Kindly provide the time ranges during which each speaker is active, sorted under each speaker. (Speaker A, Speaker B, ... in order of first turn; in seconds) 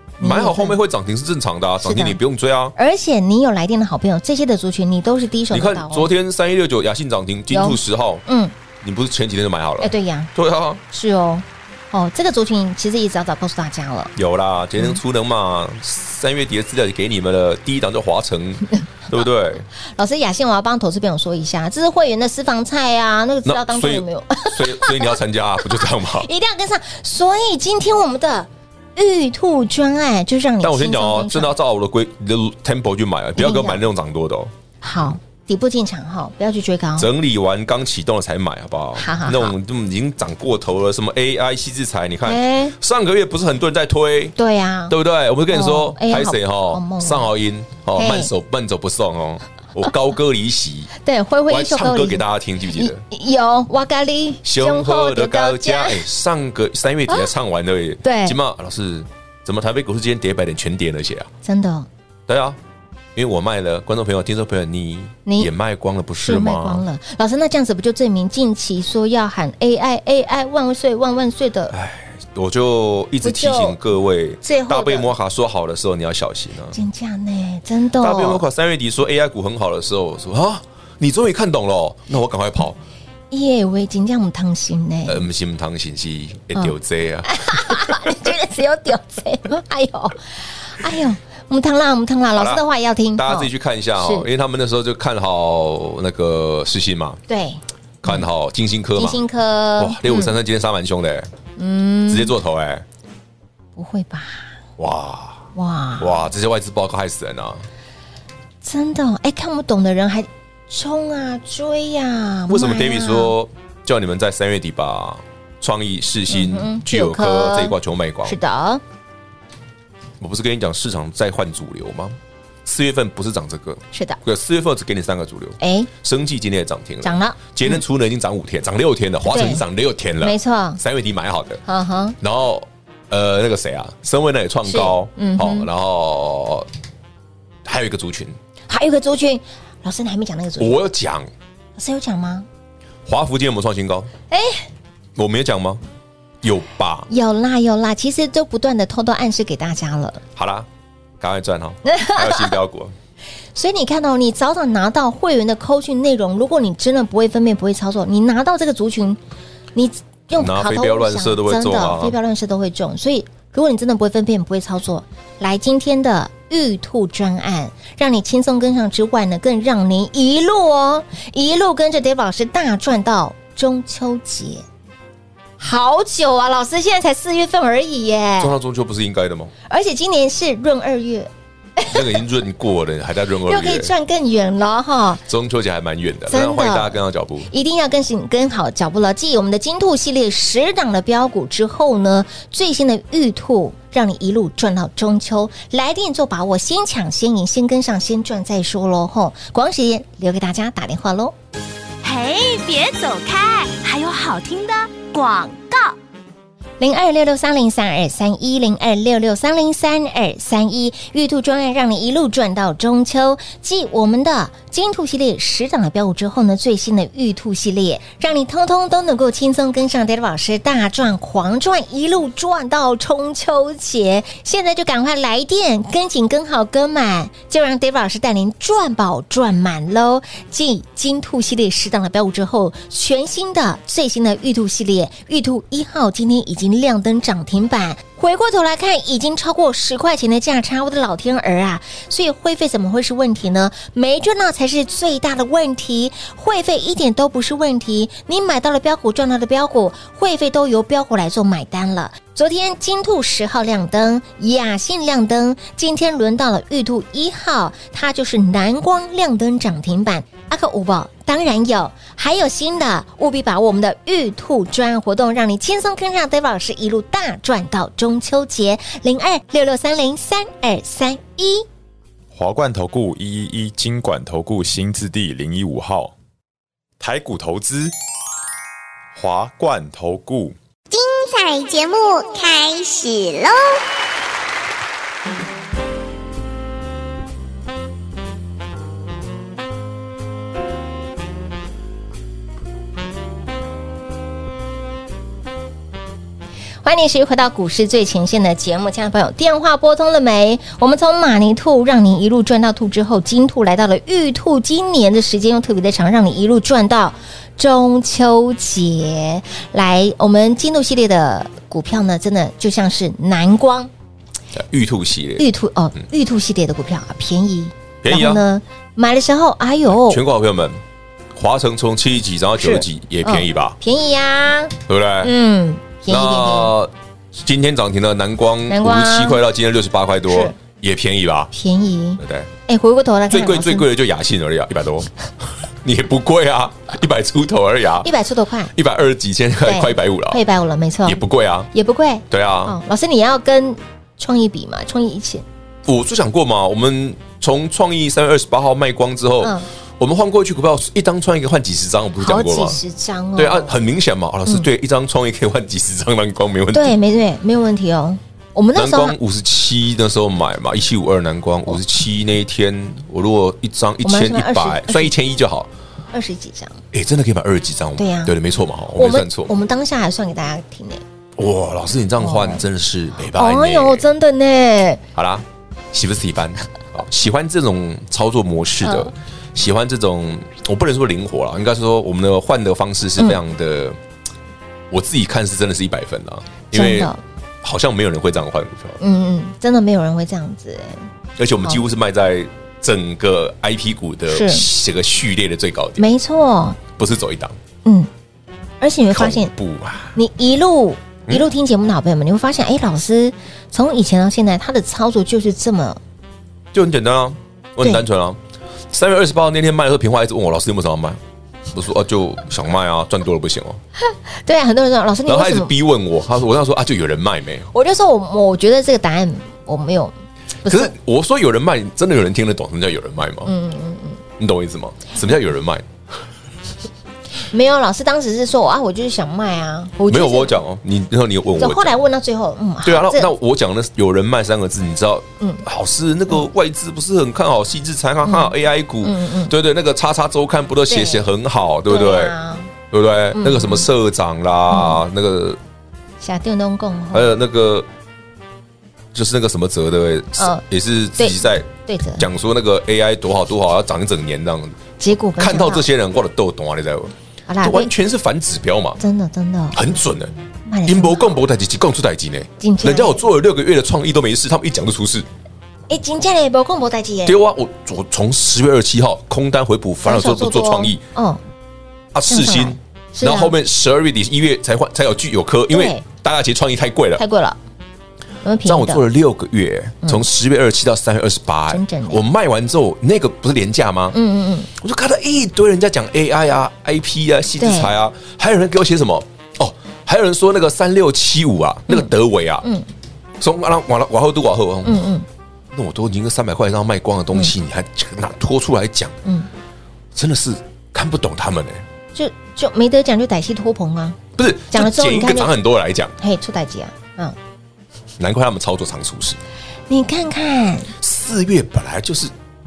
Speaker A: 0.2-0.8, 1.8-2.2, 2.8-6.1, 7.5-8.5, 9.8-10.3, 10.9-14.1, 20.0-31.6, 33.4-33.8, 34.8-37.1, 39.0-39.5, 42.3-42.8, 44.4-45.0, 45.5-47.3, 48.0-48.3, 51.0-56.0, 58.0-58.4, 61.4-61.9, 65.3-65.5, 66.2-71.7, 73.2-73.8, 74.4-75.1, 76.7-78.5, 83.3-85.2, 87.3-94.3, 97.3-98.3, 99.0-100.4, 101.6-102.3, 103.8-104.5, 105.5-106.3, 108.6-113.3, 116.3-118.8, 123.9-124.2, 125.6-125.9, 127.0-127.8, 129.3-129.6, 130.2-130.8, 131.7-132.2, 134.7-135.7, 138.7-140.8, 141.8-142.5, 144.3-144.7, 147.1-150.2, 151.8-152.6, 153.6-159.2, 159.8-174.7, 175.6-178.6, 179.7-182.1, 183.4-185.2, 186.3-187.0, 187.5-201.3, 206.8-271.7, 296.8-313.9, 315.4-320.2, 322.6-326.7, 328.7-329.4, 330.3-330.6, 331.5-333.9, 338.0-338.7, 339.6-345.4, 349.4-349.7, 352.2-353.8, 356.7-359.2, 364.0-365.1, 366.1-366.8, 368.0-368.4, 369.0-371.0, 372.2-372.6, 373.3-375.0, 378.8-379.1, 386.7-387.2, 389.0-391.1, 394.3-394.7, 396.0-396.8, 398.8-399.5, 400.2-406.0, 414.1-415.7, 417.7-420.9, 423.4-424.2, 427.4-430.6, 431.6-433.3, 438.2-439.5, 440.9-441.3, 441.9-442.7, 443.3-443.9, 444.7-445.0, 446.2-447.3, 450.4-450.6, 451.2-452.3, 455.0-455.9, 457.5-457.9, 459.0-459.8, 460.7-461.4, 462.6-463.2, 465.9-467.4, 470.0-471.4, 472.3-473.6, 475.7-476.0, 477.2-477.6, 478.4-479.0, 481.7-482.2, 484.1-484.7, 487.6-487.9, 494.8-495.3, 502.1-504.2, 504.7-505.6, 506.2-507.4, 509.9-510.9
Speaker B: 0.2-2.8, 5.5-8.2, 8.8-10.8, 14.2-19.7, 23.4-26.3, 30.6-34.5, 37.0-44.4, 44.9-50.9, 51.5-53.0, 54.4-61.3, 62.3-62.6, 63.2-66.8, 71.7-76.8, 78.0-82.8, 85.1-88.1, 92.4-92.6, 93.2-97.2, 98.0-99.2, 99.8-101.3, 102.1-102.8, 104.8-105.5, 106.0-107.7, 112.5-118.4, 120.2-131.6, 132.2-136.7, 137.7-138.4, 140.6-141.3, 143.1-144.1, 145.2-145.8, 146.4-147.1, 150.4-150.7, 151.2-152.9, 160.3-162.2, 178.4-179.5, 181.9-183.9, 185.3-187.5, 314.5-315.5, 318.0-318.4, 319.9-320.8, 321.3-323.8, 324.9-325.3, 326.1-331.5, 332.2-332.5, 333.3-338.1, 338.7-340.4, 341.1-341.7, 342.3-342.8, 345.9-352.8, 353.4-357.0, 358.8-365.7, 366.9-369.5, 371.4-374.1, 375.1-384.0, 384.9-387.1, 387.6-389.0, 391.4-396.1, 396.9-397.6, 399.1-400.2, 406.7-408.4, 408.9-411.2, 411.7-413.8, 415.3-417.7, 420.6-423.5, 424.4-425.9, 430.1-432.0, 432.9-442.4, 442.9-445.6, 447.1-447.9, 449.1-454.8, 455.4-459.0, 459.7-460.3, 460.9-465.3, 467.2-471.0, 472.1-477.2, 478.6-484.2, 484.8-492.7, 493.4-495.0, 495.7-499.2, 500.1-501.8, 504.4-506.1, 508.2-509.4, 511.0-512.3
Speaker C: 202.0-206.0
Speaker D: 272.3-276.1, 277.0-277.9, 279.1-280.6
Speaker E: 280.9-283.8